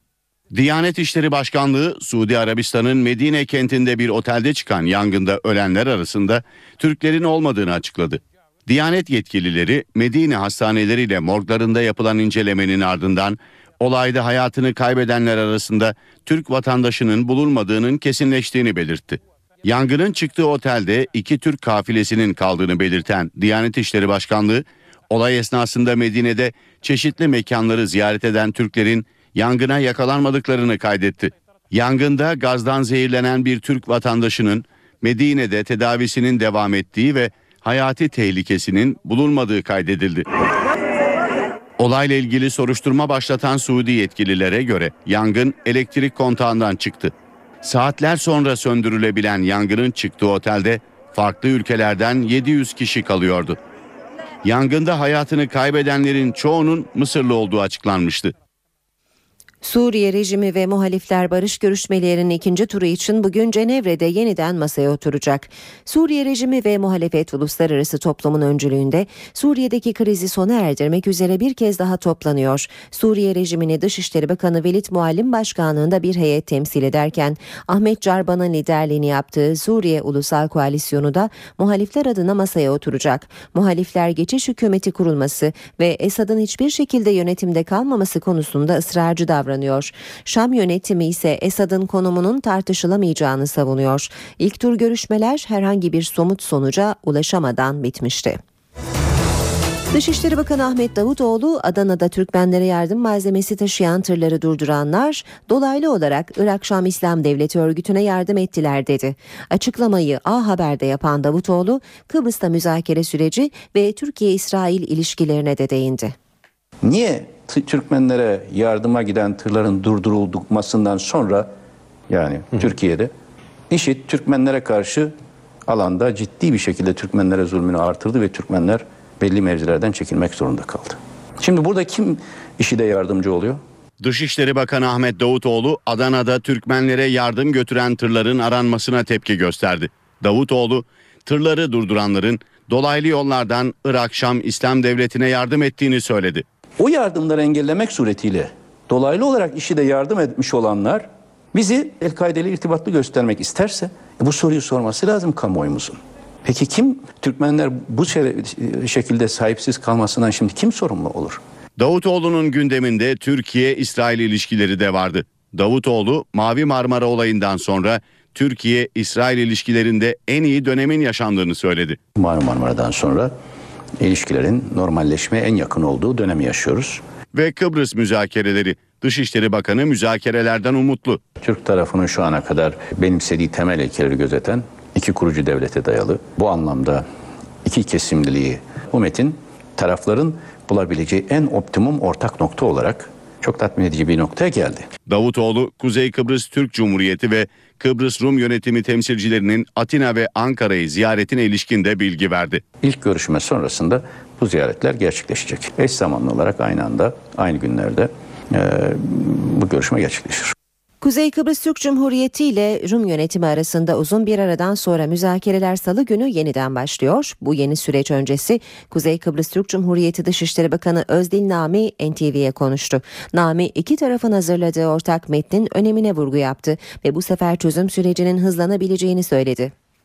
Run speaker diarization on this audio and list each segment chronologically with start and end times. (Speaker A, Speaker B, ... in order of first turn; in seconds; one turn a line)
Speaker A: 0.5-40.3
Speaker A: 41.8-53.6
Speaker A: 54.4-58.3
Speaker B: 59.6-98.4
Speaker B: 99.9-116.1
Speaker C: 116.8-121.5
Speaker C: 122.1-123.1
Speaker C: 123.7-125.1
Speaker C: 125.7-133.6
Speaker A: 134.0-146.4
Speaker C: 146.8-161.4
Speaker A: 161.8-172.0
Speaker C: 172.2-173.3
Speaker C: 174.0-177.0
Speaker A: 177.3-181.2
Speaker C: 181.4-187.1
Speaker C: 187.7-194.9
Speaker A: 195.1-202.6
Speaker C: 202.8-210.5
Speaker B: 211.0-229.7